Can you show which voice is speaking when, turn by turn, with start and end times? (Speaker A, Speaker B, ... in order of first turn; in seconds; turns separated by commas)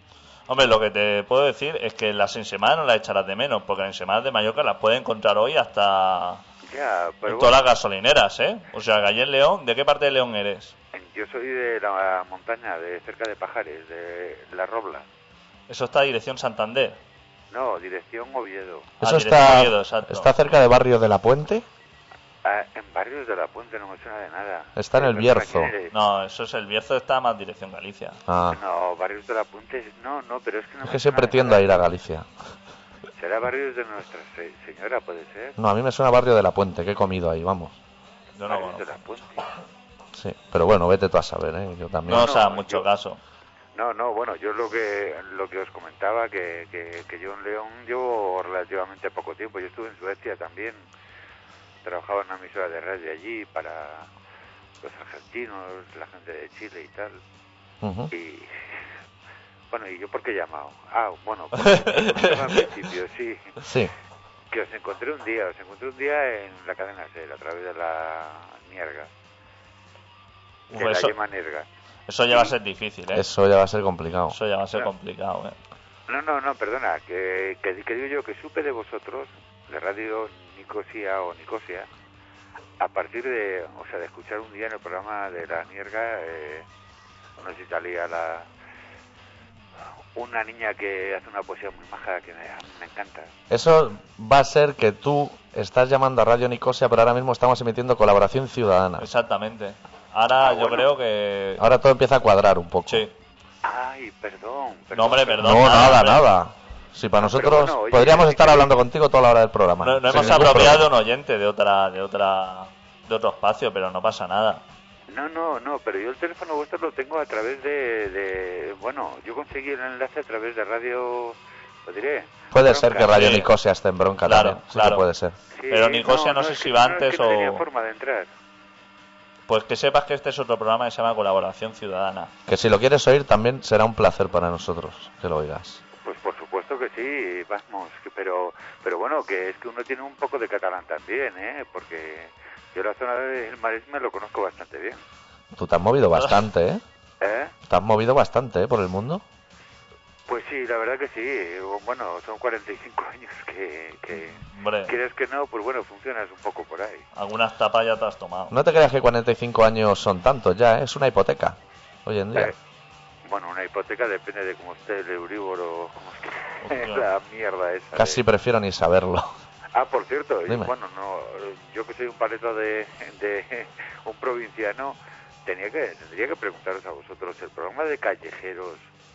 Speaker A: 0.5-6.4, Speaker B: 6.7-7.6, Speaker A: 7.3-10.7, Speaker B: 10.9-15.1, Speaker A: 15.7-17.0, Speaker B: 17.5-18.9, Speaker A: 19.0-20.3, Speaker C: 19.0-21.7, Speaker B: 22.4-26.0, Speaker C: 24.8-25.7, Speaker A: 25.9-28.2, Speaker C: 28.3-28.6, Speaker B: 28.5-31.8, Speaker C: 30.8-32.3, Speaker B: 33.2-35.6, Speaker C: 35.6-37.8, Speaker A: 38.4-39.0, Speaker B: 38.5-39.5, Speaker C: 40.1-42.3, Speaker A: 42.1-43.2, Speaker B: 42.1-42.9, Speaker B: 43.8-50.8, Speaker B: 51.8-54.1, Speaker B: 54.8-57.2, Speaker C: 57.8-58.1, Speaker B: 58.1-58.6, Speaker B: 59.7-63.7, Speaker A: 61.6-62.6, Speaker C: 63.6-63.9, Speaker B: 64.5-69.1, Speaker A: 70.7-71.1, Speaker B: 70.7-71.7, Speaker A: 72.1-73.2, Speaker C: 73.1-74.4, Speaker A: 74.3-75.6, Speaker B: 76.1-81.9, Speaker B: 82.8-86.7, Speaker B: 87.4-88.5, Speaker B: 90.2-93.3, Speaker C: 93.5-99.1, Speaker A: 99.0-101.6, Speaker B: 100.4-100.9, Speaker C: 101.6-103.1, Speaker A: 102.9-103.1, Speaker B: 103.6-106.0, Speaker A: 104.9-106.2, Speaker C: 105.4-110.9, Speaker B: 107.2-108.7, Speaker A: 109.8-114.6, Speaker B: 115.1-123.3, Speaker C: 122.5-125.3, Speaker A: 123.1-123.5, Speaker A: 124.2-125.0, Speaker B: 125.5-128.3, Speaker A: 125.7-127.7, Speaker A: 129.5-132.3, Speaker C: 132.5-135.8, Speaker B: 136.0-145.0, Speaker C: 145.6-146.8, Speaker B: 147.2-147.5, Speaker C: 147.7-149.2, Speaker B: 150.3-157.1, Speaker A: 154.5-154.9, Speaker A: 157.2-158.6, Speaker C: 158.5-162.5, Speaker B: 163.2-168.2, Speaker A: 166.6-167.1, Speaker C: 167.9-169.3, Speaker B: 169.7-178.9